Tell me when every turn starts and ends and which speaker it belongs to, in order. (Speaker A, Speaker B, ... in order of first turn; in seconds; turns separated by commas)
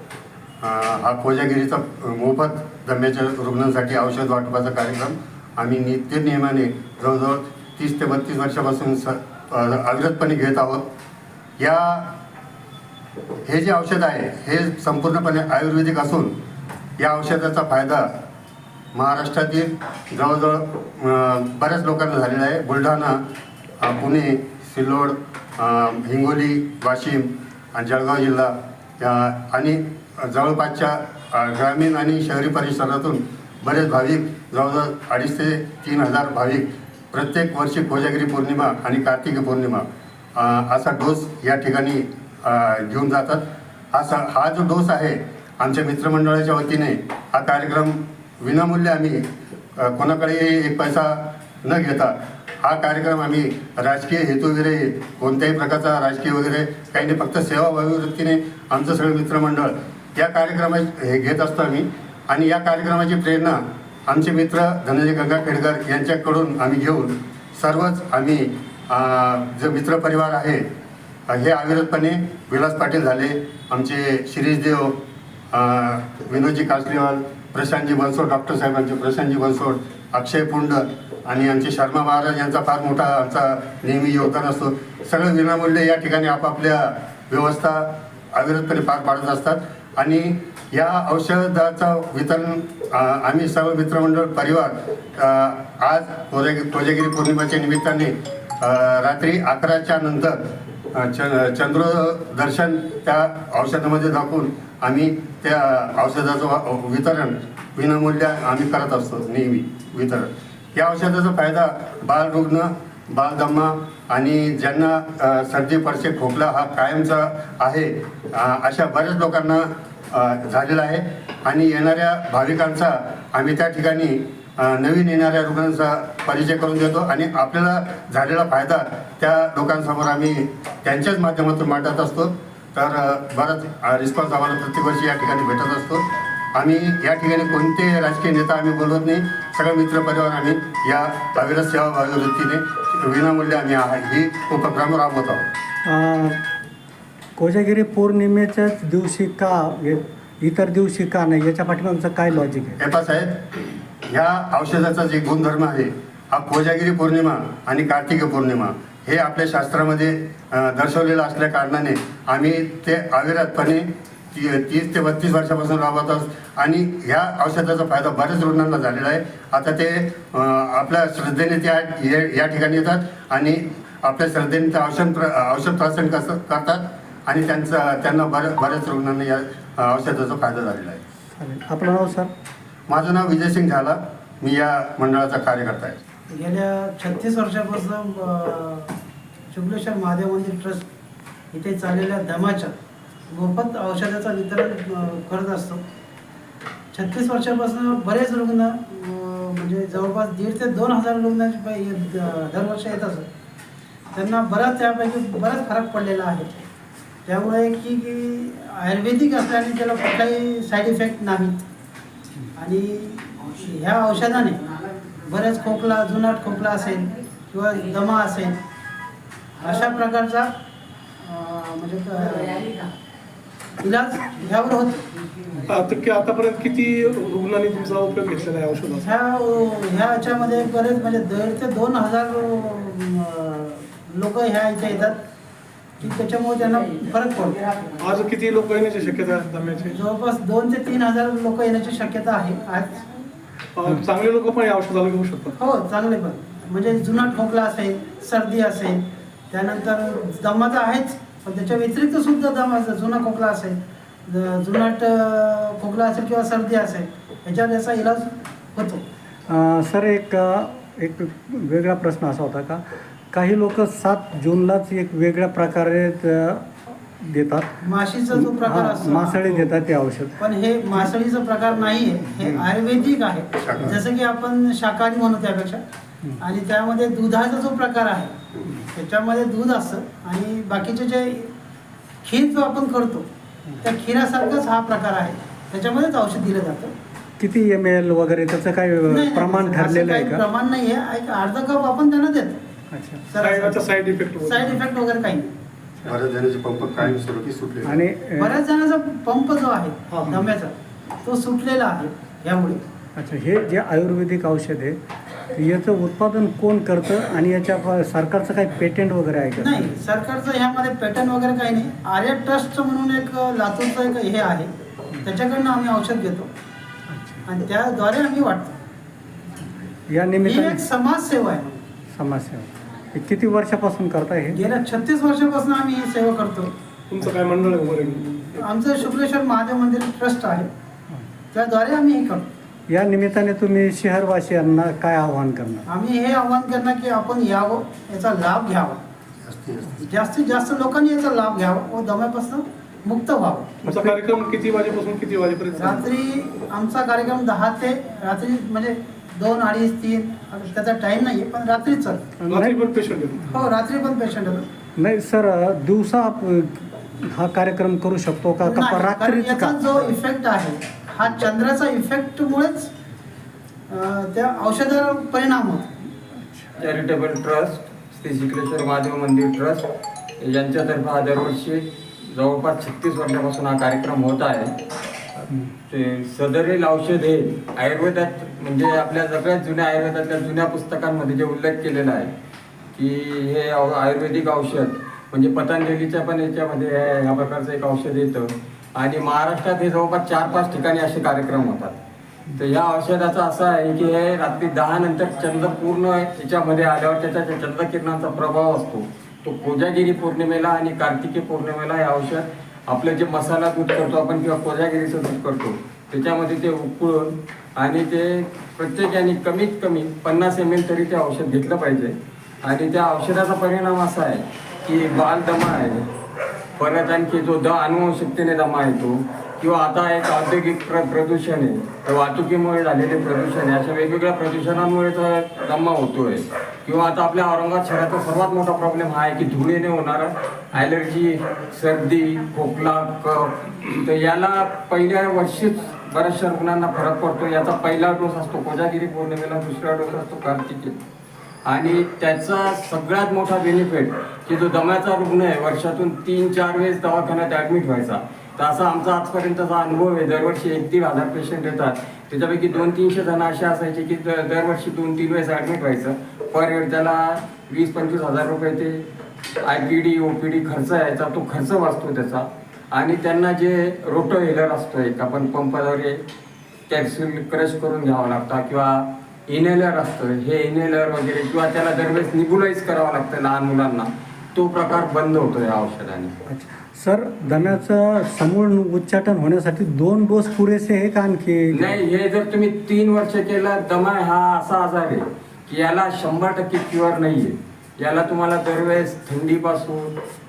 Speaker A: 0.6-10.9, Speaker A: 11.6-12.2, Speaker A: 13.4-16.4, Speaker A: 17.0-18.1, Speaker A: 18.9-23.2, Speaker A: 23.8-49.2, Speaker A: 49.8-70.6, Speaker A: 71.3-75.0, Speaker A: 75.5-100.4, Speaker A: 100.9-145.5, Speaker B: 145.8-146.3, Speaker B: 147.4-152.8, Speaker A: 152.8-153.4, Speaker A: 154.1-181.0, Speaker B: 181.4-182.3, Speaker A: 182.9-186.0, Speaker C: 186.3-188.9, Speaker C: 189.5-190.8, Speaker C: 191.5-192.7, Speaker C: 193.3-195.8, Speaker C: 196.9-203.2, Speaker C: 204.1-206.5, Speaker C: 207.2-211.6, Speaker C: 212.6-214.6, Speaker C: 215.2-218.6, Speaker C: 219.6-220.5, Speaker C: 221.2-222.8, Speaker C: 223.8-225.0, Speaker D: 225.7-229.1, Speaker C: 229.0-235.2, Speaker C: 236.0-237.6, Speaker D: 238.0-240.0, Speaker C: 239.9-243.0, Speaker D: 243.7-245.6, Speaker C: 245.6-249.0, Speaker C: 249.5-253.8, Speaker C: 254.3-259.0, Speaker B: 259.5-267.7, Speaker C: 267.8-269.7, Speaker B: 268.3-270.4, Speaker C: 270.4-275.8, Speaker A: 273.6-273.8, Speaker C: 276.4-278.3, Speaker C: 278.9-281.5, Speaker C: 282.2-283.2, Speaker C: 283.8-286.9, Speaker B: 287.4-290.4, Speaker C: 289.1-292.6, Speaker B: 292.9-293.3, Speaker C: 293.3-293.9, Speaker D: 293.4-294.8, Speaker C: 294.4-295.5, Speaker A: 296.1-298.0, Speaker B: 297.0-297.2, Speaker B: 297.8-298.6, Speaker C: 298.4-300.7, Speaker C: 301.2-302.8, Speaker B: 303.1-305.0, Speaker B: 305.5-309.9, Speaker C: 309.5-314.7, Speaker C: 315.2-316.5, Speaker B: 317.1-317.4, Speaker C: 317.4-318.7, Speaker B: 320.1-320.8, Speaker C: 320.4-321.8, Speaker B: 322.1-324.6, Speaker C: 324.5-326.7, Speaker D: 327.1-328.2, Speaker C: 328.3-330.7, Speaker C: 331.5-332.5, Speaker B: 332.9-335.9, Speaker C: 335.9-339.0, Speaker A: 339.4-339.9, Speaker C: 340.0-343.8, Speaker D: 343.8-346.1, Speaker B: 343.9-344.1, Speaker C: 345.7-352.2, Speaker B: 352.4-352.9, Speaker D: 352.5-353.4, Speaker C: 353.5-354.6, Speaker B: 355.0-360.1, Speaker C: 358.6-362.9, Speaker C: 363.9-365.9, Speaker B: 366.4-366.7, Speaker E: 366.7-369.8, Speaker E: 370.4-374.7, Speaker E: 375.9-382.3, Speaker E: 382.9-392.0, Speaker E: 392.6-416.1, Speaker E: 416.8-440.9, Speaker E: 441.6-459.1, Speaker E: 459.6-466.2, Speaker E: 466.9-476.3, Speaker B: 476.5-482.0, Speaker E: 481.7-490.1